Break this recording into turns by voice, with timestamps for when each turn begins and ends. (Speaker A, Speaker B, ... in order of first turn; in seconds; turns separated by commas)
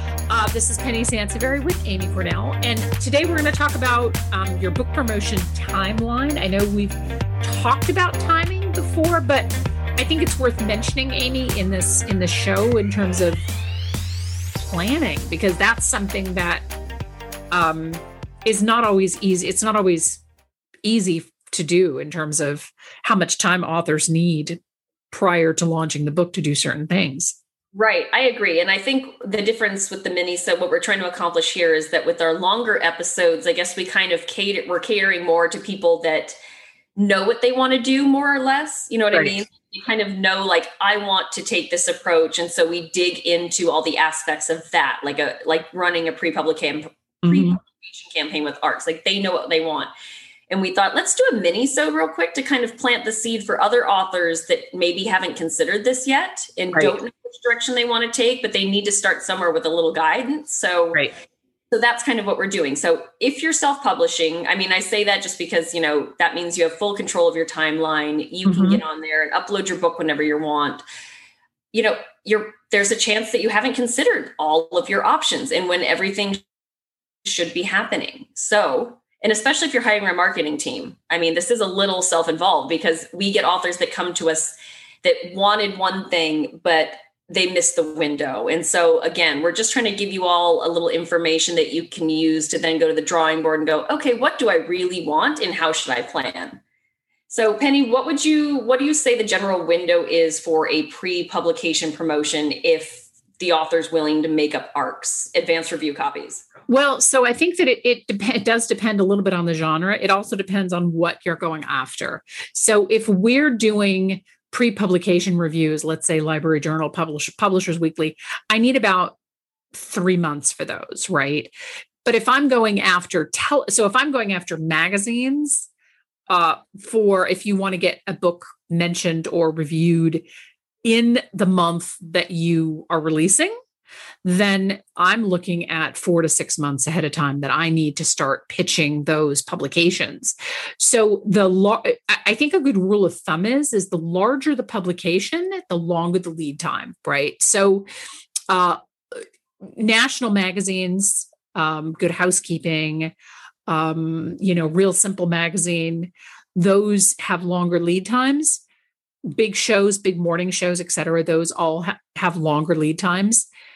Speaker A: 0.3-13.5, Speaker A: 14.6-16.7, Speaker A: 17.5-20.2, Speaker A: 20.8-24.6, Speaker A: 25.1-27.4, Speaker B: 27.7-36.4, Speaker B: 37.0-49.9, Speaker A: 39.1-39.4, Speaker A: 47.2-47.6, Speaker B: 50.5-61.0, Speaker B: 61.7-70.8, Speaker A: 68.5-68.8, Speaker B: 71.7-76.5, Speaker B: 77.2-96.6, Speaker B: 97.3-106.5, Speaker A: 106.7-119.2, Speaker A: 119.7-121.5, Speaker A: 122.0-125.7, Speaker A: 126.3-130.2, Speaker A: 130.8-133.5, Speaker A: 134.2-147.9, Speaker A: 148.5-153.1, Speaker A: 153.7-158.6, Speaker A: 159.3-163.5